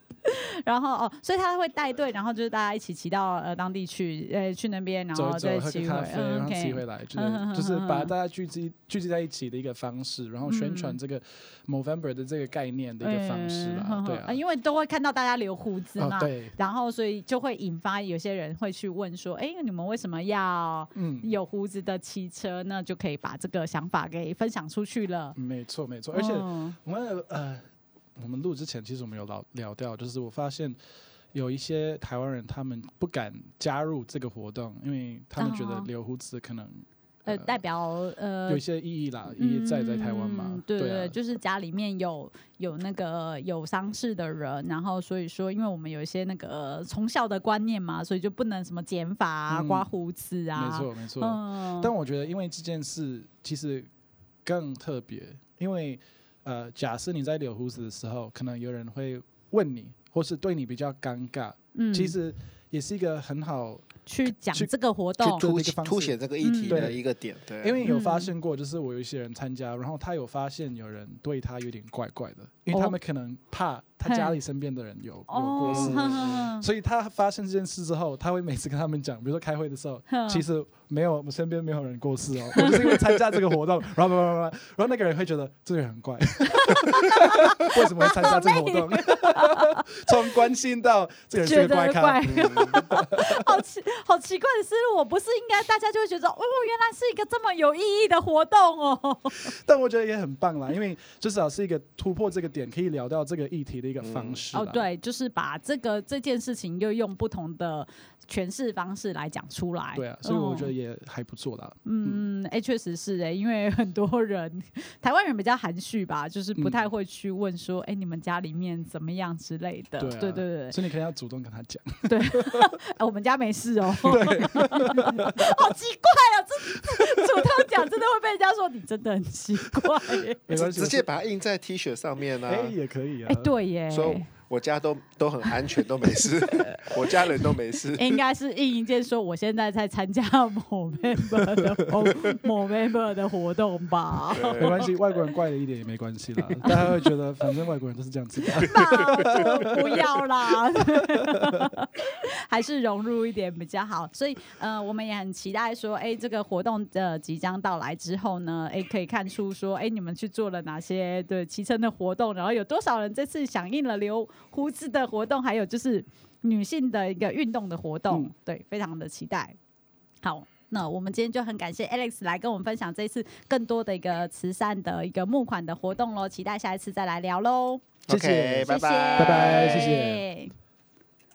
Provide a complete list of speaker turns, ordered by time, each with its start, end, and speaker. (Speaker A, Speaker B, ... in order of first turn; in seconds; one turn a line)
Speaker A: 0.2-8.1
Speaker B: 5.2-14.4
Speaker A: 10.4-11.0
Speaker A: 13.0-25.4
Speaker B: 16.0-16.6
Speaker B: 20.9-21.3
Speaker B: 25.4-30.8
Speaker A: 26.1-26.8
Speaker B: 31.3-37.6
Speaker A: 35.4-35.9
Speaker A: 37.3-38.6
Speaker B: 38.5-41.2
Speaker A: 39.4-51.9
Speaker B: 49.5-49.9
Speaker B: 50.5-53.9
Speaker B: 54.5-67.0
Speaker A: 61.8-62.2
Speaker A: 64.1-65.5
Speaker C: 65.3-67.8
Speaker A: 66.4-66.9
Speaker B: 67.6-93.5
Speaker A: 67.8-68.3
Speaker A: 72.7-73.0
Speaker A: 74.1-74.4
Speaker A: 75.3-76.7
Speaker C: 75.6-76.5
Speaker A: 80.1-80.5
Speaker A: 82.6-83.0
Speaker A: 86.5-89.8
Speaker A: 91.4-99.5
Speaker C: 92.2-92.8
Speaker B: 99.5-104.9
Speaker C: 104.0-104.4
Speaker A: 104.5-110.7
Speaker B: 110.0-112.3
Speaker A: 111.8-120.8
Speaker B: 116.6-116.9
Speaker B: 120.0-122.8
Speaker A: 122.1-130.4
Speaker B: 124.0-125.7
Speaker B: 126.9-127.7
Speaker B: 129.8-131.1
Speaker C: 130.5-132.8
Speaker B: 132.4-133.5
Speaker A: 133.3-134.3
Speaker C: 133.9-138.2
Speaker A: 136.2-144.9
Speaker B: 141.4-141.7
Speaker C: 144.3-144.9
Speaker B: 144.6-151.7
Speaker A: 146.6-147.0
Speaker A: 148.5-169.6
Speaker A: 170.2-177.9
Speaker B: 178.1-180.3
Speaker C: 178.1-180.0
Speaker A: 178.7-180.6